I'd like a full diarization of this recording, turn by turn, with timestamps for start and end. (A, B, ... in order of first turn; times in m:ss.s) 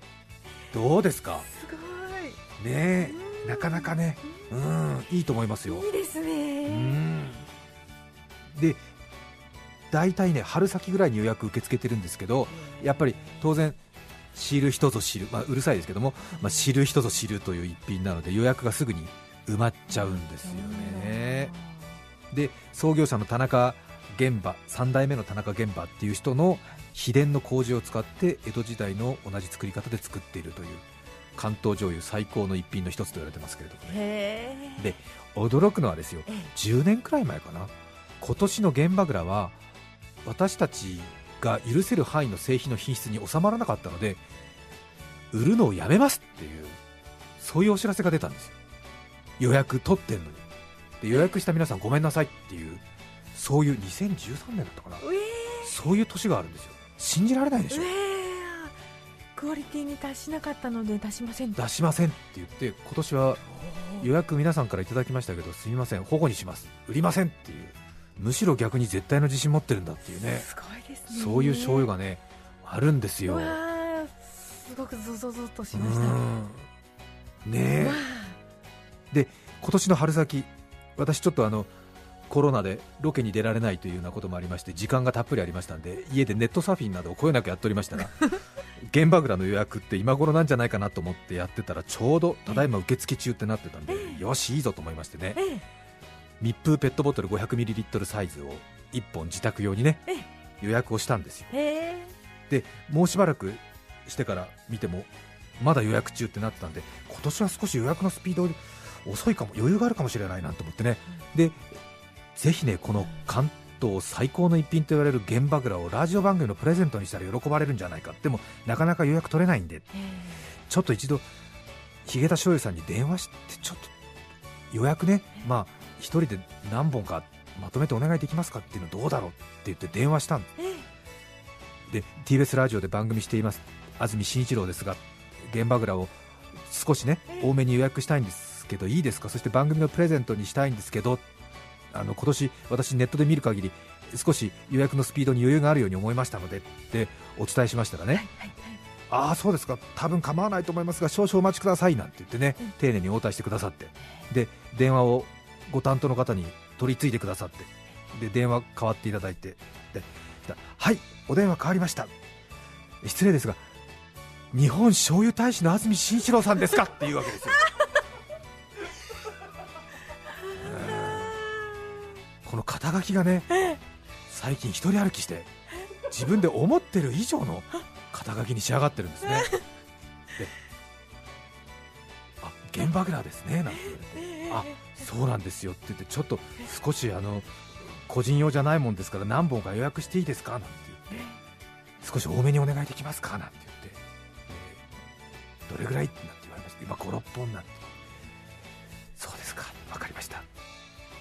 0:00.7-0:01.5 A
0:01.5-0:02.4 B
0:02.6-0:05.9 A
0:03.0-0:04.4 B
0:05.7-0:07.0 B
0:06.6-0:07.5 A
0:08.5-0:08.8 A
0:09.9-0:13.8 A
0:12.5-0:13.5 B
0:14.3-0:21.5 A
0:16.4-0:16.7 B
0:19.9-0:22.0 B
0:22.3-0:30.8 A
0:31.4-0:34.0 A
0:33.9-0:34.9 B
0:34.8-0:39.6 A
0:40.2-0:44.2 A
0:45.3-0:46.8 A
0:47.4-0:48.6 A
0:49.4-0:50.4 A
0:51.0-0:52.8 A
0:53.3-0:55.0 A
0:55.0-0:55.7 B
0:55.6-0:57.9 A
0:57.7-0:58.8 B
0:59.3-1:01.6 B
1:01.6-1:03.4 A
1:03.6-1:04.1 B
1:04.0-1:10.4 A
1:10.2-1:11.9 B
1:11.1-1:13.6 A
1:13.2-1:16.2 B
1:15.7-1:16.6 A
1:17.4-1:18.0 A
1:17.8-1:18.3 B
1:19.1-1:21.7 A
1:22.3-1:35.4 A
1:33.9-1:34.2 B
1:35.3-1:35.6 B
1:36.4-1:40.0 A
1:40.6-1:41.5 A
1:41.5-1:42.1 B
1:42.5-1:51.7 A
1:52.3-1:59.9 A
1:59.9-2:00.4 B
2:00.7-2:01.2 A
2:02.0-2:03.9 A
2:04.7-2:10.5 A
2:10.6-2:10.9 B
2:11.9-2:21.2 A
2:21.9-2:28.3 A
2:28.2-2:28.8 B
2:29.1-2:42.1 A
2:43.0-2:43.6 A
2:44.5-2:47.6 A
2:50.6-2:51.4 A
2:51.0-2:51.6 B
2:52.4-2:53.5 A
2:54.3-2:55.5 A
2:56.1-2:59.5 A
3:02.4-3:11.2 A
3:04.1-3:05.0 B
3:11.1-3:11.4 B
3:12.0-3:14.8 A
3:15.7-3:17.9 A
3:19.2-3:20.4 A